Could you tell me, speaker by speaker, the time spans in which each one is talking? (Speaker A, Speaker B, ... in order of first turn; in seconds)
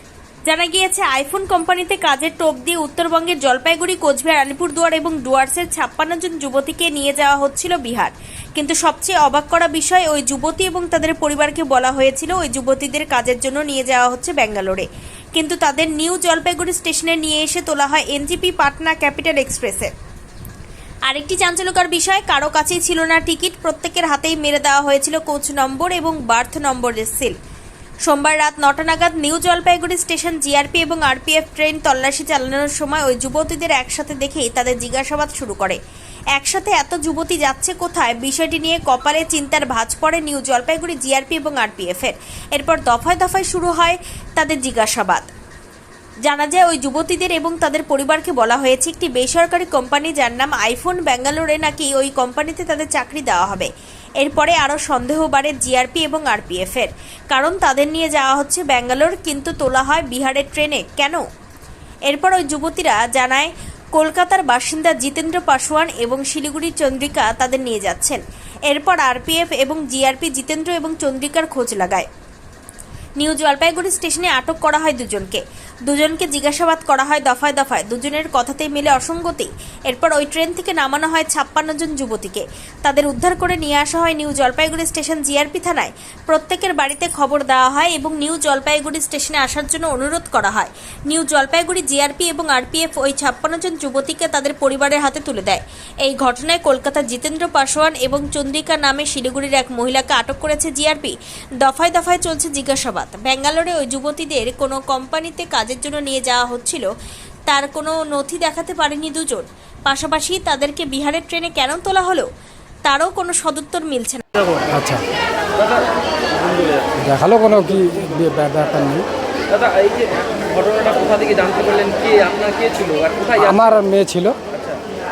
Speaker A: 0.5-19.9, 21.1-27.4, 28.1-35.8, 36.3-45.3, 46.2-53.7, 54.2-61.2, 62.1-72.1, 73.2-106.9, 107.5-112.3, 112.8-114.2
Speaker B: 114.7-115.0, 117.0-119.0, 123.4-124.3
Speaker C: 116.4-116.8, 119.5-123.4